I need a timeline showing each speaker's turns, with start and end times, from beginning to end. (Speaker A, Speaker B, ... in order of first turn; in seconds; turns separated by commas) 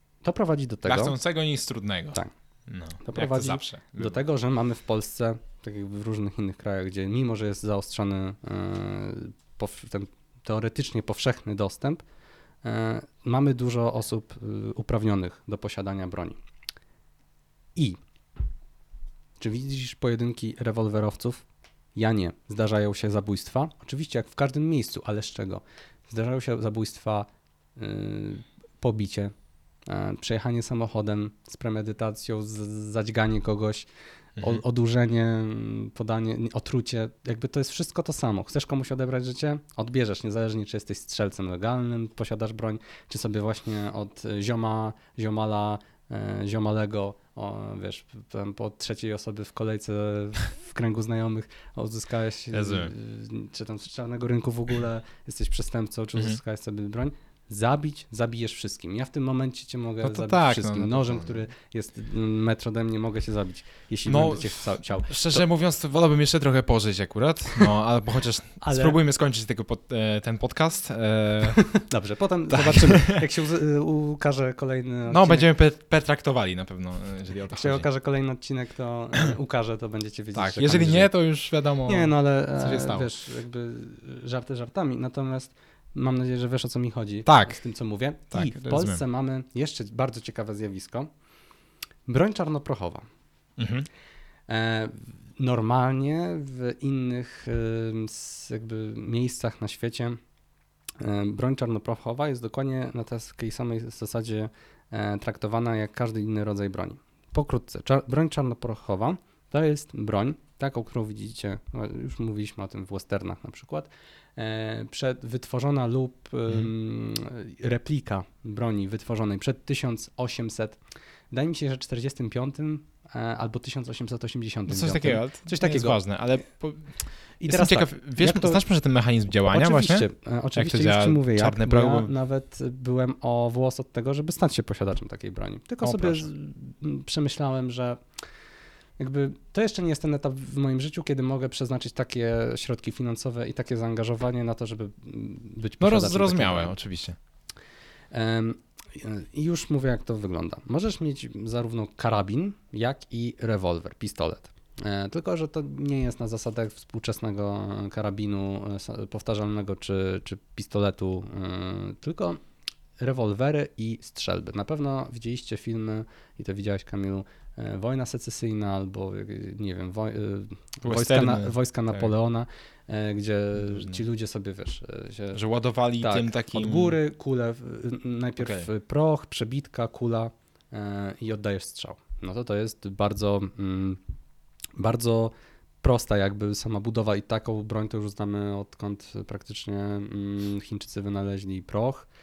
Speaker A: 0.2-1.2, Speaker B: 0.9-4.2, Speaker A: 3.0-12.0, Speaker A: 12.6-16.4, Speaker A: 19.4-21.4, Speaker A: 22.0-29.3, Speaker A: 29.9-33.9, Speaker B: 34.4-34.6, Speaker A: 34.4-65.5, Speaker B: 52.5-52.9, Speaker B: 60.0-61.4, Speaker B: 64.1-71.7, Speaker A: 68.6-69.0, Speaker A: 71.7-75.5, Speaker B: 72.5-73.2, Speaker B: 75.1-77.9, Speaker A: 77.5-81.1, Speaker B: 80.3-83.1, Speaker A: 81.8-91.1, Speaker B: 87.3-87.6, Speaker B: 88.3-89.0, Speaker A: 92.1-93.0, Speaker B: 93.6-93.9, Speaker A: 94.5-100.2, Speaker A: 101.0-120.8, Speaker A: 121.3-126.0, Speaker B: 124.7-132.1, Speaker A: 127.4-128.6, Speaker A: 129.5-138.0, Speaker B: 135.8-136.2, Speaker A: 139.0-146.8, Speaker B: 145.8-147.2, Speaker A: 148.1-162.4, Speaker A: 163.0-175.4, Speaker B: 170.8-172.1, Speaker B: 173.6-174.0, Speaker B: 175.3-177.0, Speaker A: 176.0-184.0, Speaker B: 178.4-178.7, Speaker A: 184.8-192.1